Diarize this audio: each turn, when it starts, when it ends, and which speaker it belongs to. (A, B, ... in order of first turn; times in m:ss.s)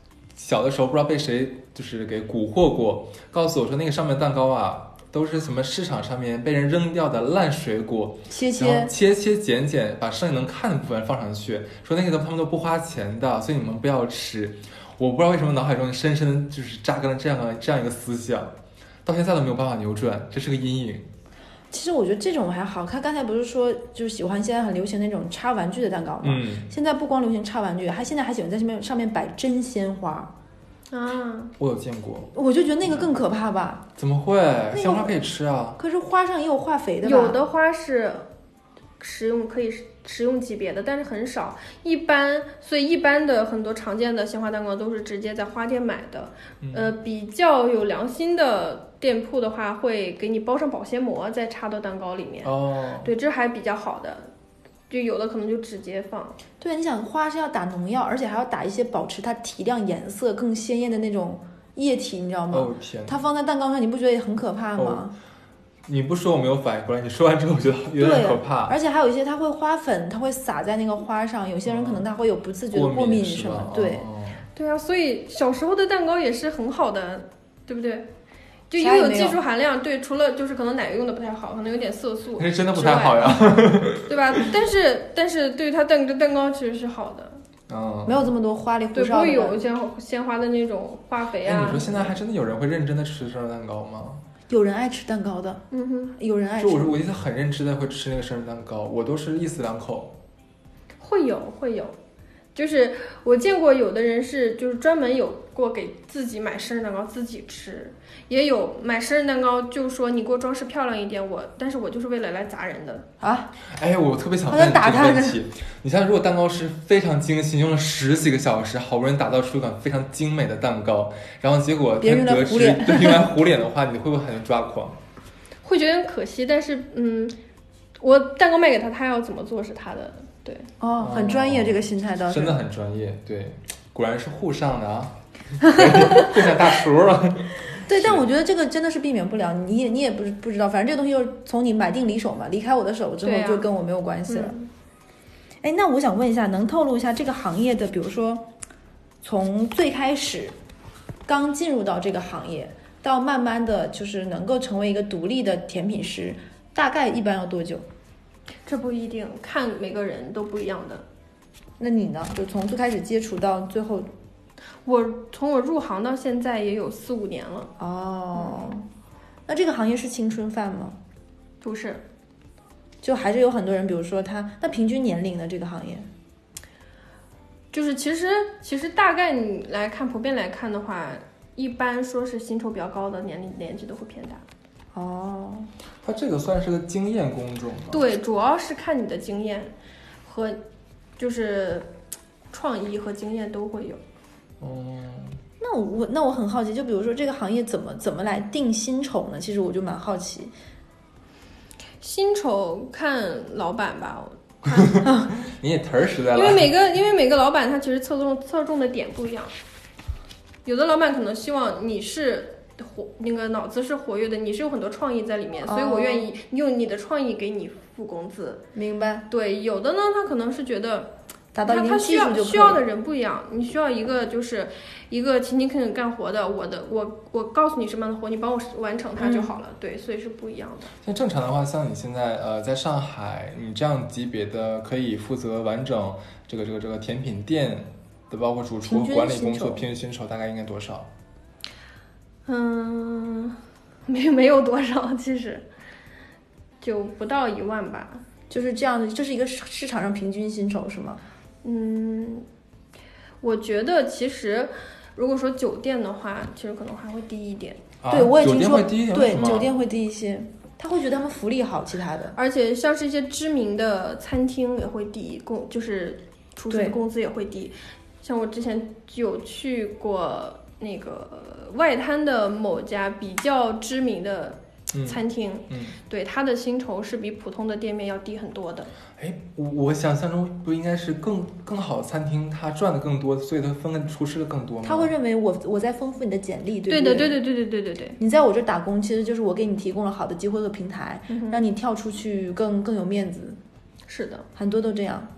0:00.4-0:18.5 A
0:08.3-0:08.9 B
0:19.0-0:21.0 A
0:21.7-0:30.3 B
0:26.2-0:26.7 A
0:30.9-0:31.5 C
0:31.6-0:32.3 A
0:32.3-0:33.9 B
0:34.0-0:35.8 A
0:34.7-0:35.2 B
0:35.8-0:37.4 B
0:37.0-0:38.3 C
0:39.0-0:54.3 C
0:46.6-0:46.9 A
0:52.4-0:53.1 A
0:54.9-0:56.4 C
0:56.6-1:05.1 B
1:02.5-1:03.2 A
1:04.8-1:05.1 A
1:05.9-1:08.8 A
1:08.0-1:14.1 B
1:11.6-1:12.0 A
1:12.7-1:14.4 A
1:14.6-1:18.1 C
1:18.7-1:27.4 C
1:18.8-1:19.4 B
1:22.4-1:24.5 A
1:27.7-1:28.3 A
1:28.0-1:29.6 B
1:28.9-1:32.1 C
1:31.4-1:34.2 A
1:34.5-1:35.6 B
1:35.7-1:36.1 C
1:36.2-1:37.0 B
1:36.6-1:40.1 A
1:41.0-1:42.0 C
1:42.5-1:53.0 C
1:53.2-1:53.5 B
1:53.7-2:05.0 A
1:54.5-1:55.4 B
2:02.0-2:03.3 B
2:05.6-2:07.3 C
2:08.0-2:10.7 C
2:10.8-2:12.6 B
2:11.0-2:18.2 A
2:15.6-2:16.5 B
2:17.9-2:24.6 B
2:23.2-2:23.7 C
2:24.3-2:24.7 C
2:25.6-2:28.5 B
2:29.2-2:30.5 B
2:31.2-2:37.8 B
2:38.6-2:41.0 C
2:41.8-2:44.1 B
2:44.8-2:47.7 C
2:47.8-2:48.9 B
2:48.4-2:48.7 C
2:49.5-2:51.0 B
2:51.6-2:52.0 C
2:53.0-2:56.1 B
2:57.7-3:04.4 C
3:04.9-3:05.7 B
3:06.0-3:08.1 A
3:07.9-3:09.7 C
3:10.2-3:10.6 C
3:11.2-3:11.9 C
3:12.5-3:14.0 C
3:14.6-3:15.4 A
3:15.6-3:20.5 B
3:22.0-3:25.0 C
3:24.8-3:26.7 A
3:26.3-3:29.5 C
3:30.6-3:38.6 C
3:35.6-3:36.3 B
3:38.7-3:39.3 B
3:39.3-3:41.1 C
3:41.5-3:42.8 B
3:41.6-3:50.9 C
3:49.2-3:49.6 B
3:51.0-4:01.1 A
3:58.8-3:59.8 B
4:02.4-4:05.6 C
4:06.8-4:08.2 C
4:08.5-4:11.2 B
4:11.6-4:12.4 C
4:13.4-4:17.8 C
4:18.0-4:19.7 A
4:18.1-4:22.4 B
4:22.3-4:38.9 C
4:26.7-4:27.0 B
4:34.9-4:36.0 A
4:39.2-4:45.1 A
4:44.8-4:47.4 B
4:46.9-4:48.2 C
4:48.2-4:53.6 B
4:51.3-4:51.6 C
4:54.1-4:54.4 C
4:54.6-4:55.3 B